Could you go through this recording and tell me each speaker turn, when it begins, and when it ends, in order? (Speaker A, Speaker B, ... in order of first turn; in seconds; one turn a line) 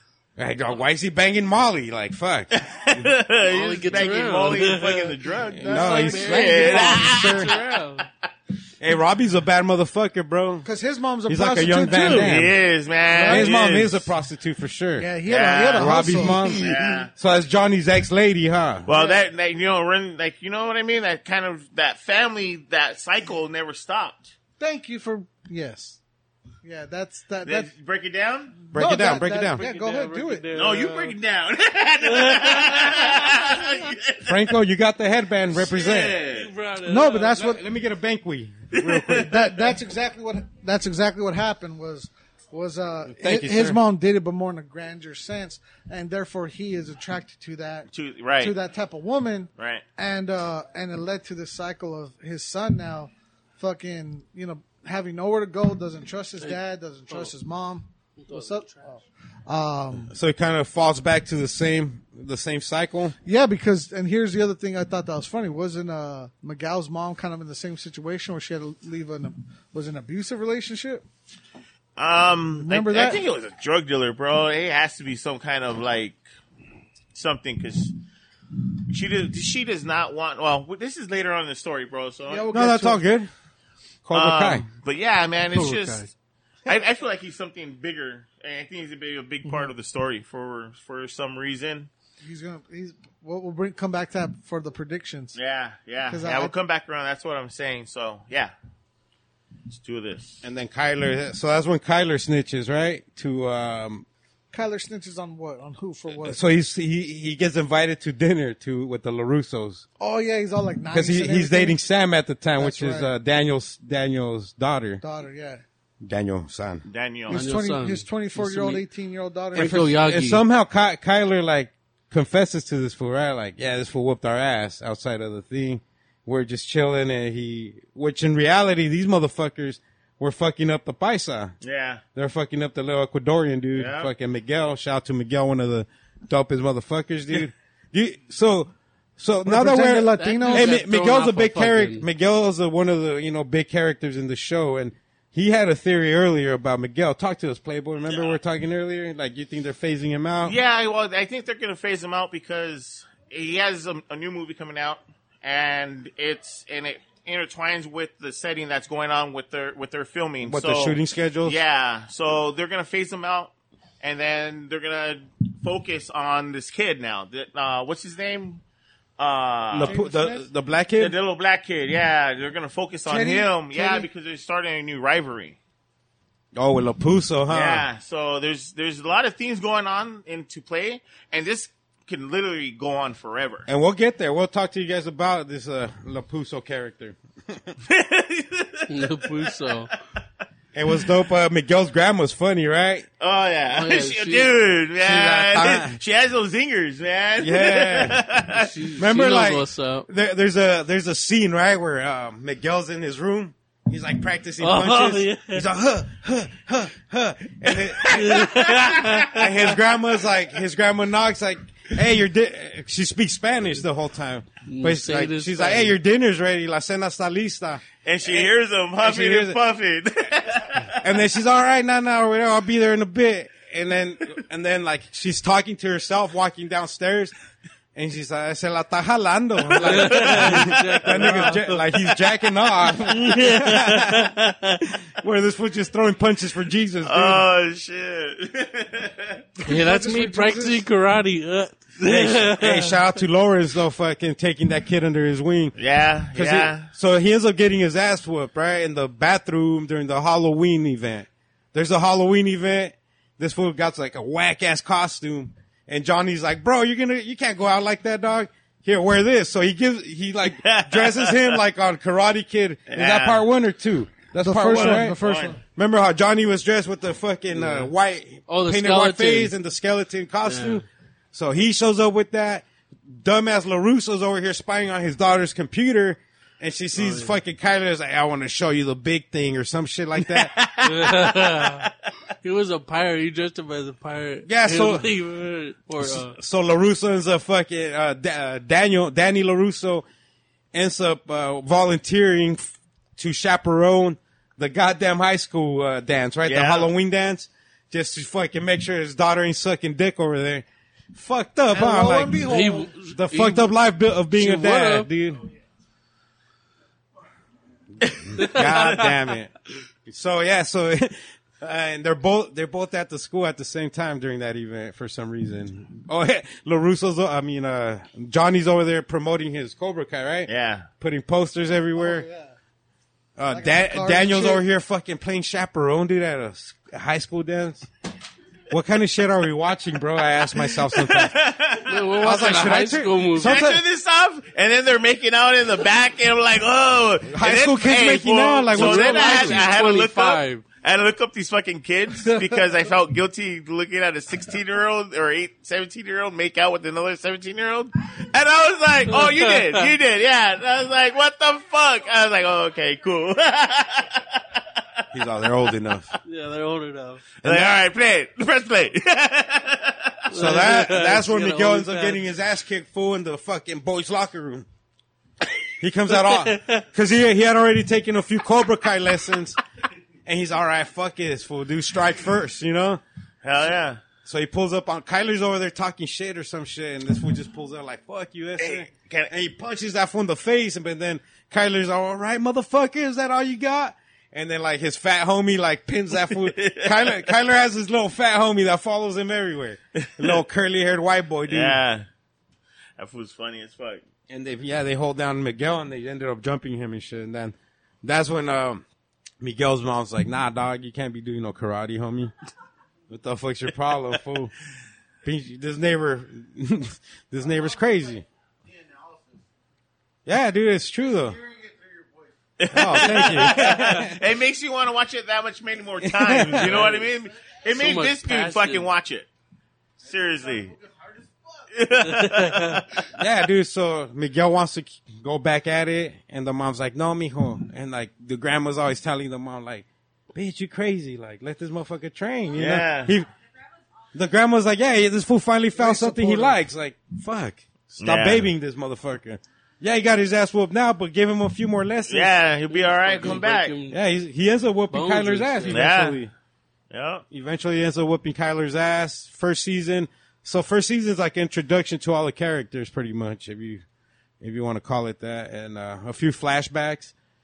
Speaker A: 0.4-3.0
Speaker B: 2.5-7.7
Speaker C: 3.5-8.1
Speaker A: 5.5-7.5
Speaker A: 8.8-10.7
Speaker D: 10.6-12.3
Speaker A: 11.3-12.5
Speaker C: 12.0-12.2
Speaker B: 12.1-14.1
Speaker D: 13.1-13.5
Speaker A: 13.3-15.1
Speaker D: 15.0-16.7
Speaker B: 15.3-17.1
Speaker A: 15.8-18.9
Speaker B: 18.9-24.3
Speaker D: 18.9-19.2
Speaker D: 24.6-26.0
Speaker D: 26.6-27.7
Speaker B: 27.4-28.6
Speaker D: 28.7-30.4
Speaker A: 28.7-29.6
Speaker C: 29.5-31.1
Speaker B: 30.5-34.5
Speaker C: 32.1-33.1
Speaker A: 34.2-36.2
Speaker B: 35.5-36.5
Speaker C: 36.3-37.4
Speaker D: 36.8-37.6
Speaker A: 37.3-39.3
Speaker B: 38.7-39.7
Speaker D: 39.1-47.9
Speaker A: 43.1-43.8
Speaker B: 47.9-48.5
Speaker D: 48.4-60.1
Speaker B: 49.6-49.8
Speaker C: 56.4-57.3
Speaker C: 58.2-58.7
Speaker A: 60.1-63.1
Speaker D: 63.2-71.0
Speaker B: 72.0-76.2
Speaker D: 72.6-73.2
Speaker B: 77.1-77.9
Speaker B: 78.9-82.5
Speaker D: 82.3-83.0
Speaker A: 82.5-83.3
Speaker A: 84.0-84.6
Speaker B: 84.1-86.1
Speaker C: 85.5-86.1
Speaker B: 86.7-91.9
Speaker D: 92.2-95.3
Speaker B: 95.3-98.5
Speaker D: 96.1-96.5
Speaker B: 99.7-100.4
Speaker A: 100.4-104.0
Speaker D: 104.5-106.4
Speaker A: 106.2-109.8
Speaker D: 110.0-111.8
Speaker A: 110.9-115.0
Speaker D: 112.6-113.1
Speaker D: 115.0-115.6
Speaker A: 116.0-116.8
Speaker B: 116.8-117.4
Speaker D: 117.3-119.9
Speaker C: 117.3-118.8
Speaker C: 119.5-120.4
Speaker A: 119.5-131.5
Speaker B: 131.6-132.0
Speaker A: 132.1-150.5
Speaker B: 133.7-134.1
Speaker D: 139.4-140.8
Speaker C: 140.2-142.1
Speaker B: 148.1-148.4
Speaker B: 150.4-168.6
Speaker A: 160.4-161.6
Speaker B: 169.2-170.0
Speaker A: 169.7-171.1
Speaker D: 169.8-170.4
Speaker B: 171.0-175.6
Speaker D: 173.1-174.1
Speaker A: 176.5-177.8
Speaker B: 177.5-183.7
Speaker A: 183.7-187.7
Speaker B: 187.8-189.7
Speaker C: 188.9-189.9
Speaker A: 190.7-193.1
Speaker B: 193.2-198.7
Speaker C: 193.7-194.5
Speaker A: 195.0-196.0
Speaker A: 197.4-198.2
Speaker C: 198.5-200.1
Speaker A: 199.0-208.5
Speaker C: 204.6-205.7
Speaker C: 208.1-209.6
Speaker B: 208.1-209.2
Speaker A: 209.2-218.4
Speaker C: 214.7-215.9
Speaker B: 218.0-221.0
Speaker A: 219.0-219.6
Speaker A: 221.0-227.3
Speaker A: 227.9-234.4
Speaker C: 229.8-231.9
Speaker B: 229.8-231.4
Speaker C: 233.0-234.8
Speaker A: 235.2-237.4
Speaker B: 237.0-239.4
Speaker D: 239.6-240.8
Speaker C: 239.6-243.1
Speaker A: 242.0-245.7
Speaker B: 245.8-246.9
Speaker A: 246.3-265.2
Speaker B: 260.5-261.6
Speaker B: 262.9-263.4
Speaker D: 264.4-265.6
Speaker B: 264.7-265.5
Speaker A: 265.8-280.5
Speaker C: 267.5-267.9
Speaker C: 268.5-269.5
Speaker C: 270.4-270.8
Speaker C: 276.9-277.3
Speaker B: 280.4-281.9
Speaker C: 280.8-281.9
Speaker C: 282.4-286.4
Speaker A: 284.4-285.1
Speaker A: 286.0-290.1
Speaker A: 290.7-305.4
Speaker B: 296.4-296.9
Speaker D: 301.7-302.9
Speaker C: 302.4-303.7
Speaker C: 304.3-305.1
Speaker A: 308.0-309.5
Speaker C: 308.4-309.1
Speaker A: 310.1-322.2
Speaker B: 320.5-320.9
Speaker D: 321.9-322.5
Speaker A: 323.4-327.9
Speaker D: 323.5-324.6
Speaker A: 328.7-331.3
Speaker B: 330.6-332.7
Speaker C: 331.9-333.6
Speaker A: 332.2-333.8
Speaker B: 333.4-354.8
Speaker A: 337.3-339.7
Speaker C: 338.7-340.6
Speaker C: 349.1-349.8
Speaker A: 355.1-356.1
Speaker C: 356.2-357.3
Speaker B: 357.4-360.3
Speaker A: 357.4-357.8
Speaker C: 360.3-362.2
Speaker A: 360.3-364.6
Speaker A: 365.8-369.6
Speaker C: 366.1-366.8
Speaker A: 370.2-373.0
Speaker B: 373.4-374.0
Speaker A: 374.2-391.8
Speaker B: 378.6-379.3
Speaker B: 386.1-387.2
Speaker B: 390.0-390.4
Speaker B: 391.5-392.1
Speaker B: 393.0-394.0
Speaker A: 394.3-398.8
Speaker A: 399.4-402.3
Speaker A: 403.1-404.5
Speaker A: 405.2-408.2
Speaker A: 410.2-411.4
Speaker B: 412.6-419.3
Speaker A: 412.7-414.2
Speaker A: 416.0-416.9
Speaker C: 416.6-417.1
Speaker C: 417.7-418.9
Speaker B: 420.0-420.8
Speaker B: 421.7-423.1
Speaker C: 422.1-422.8
Speaker A: 423.1-433.3
Speaker B: 432.5-433.1
Speaker A: 434.1-442.3
Speaker C: 435.8-436.5
Speaker B: 438.0-438.5
Speaker B: 442.1-443.7
Speaker C: 442.7-444.0
Speaker A: 443.9-446.3
Speaker C: 444.9-445.9
Speaker B: 445.7-446.2
Speaker B: 446.9-447.2
Speaker A: 447.3-453.8
Speaker A: 454.4-457.1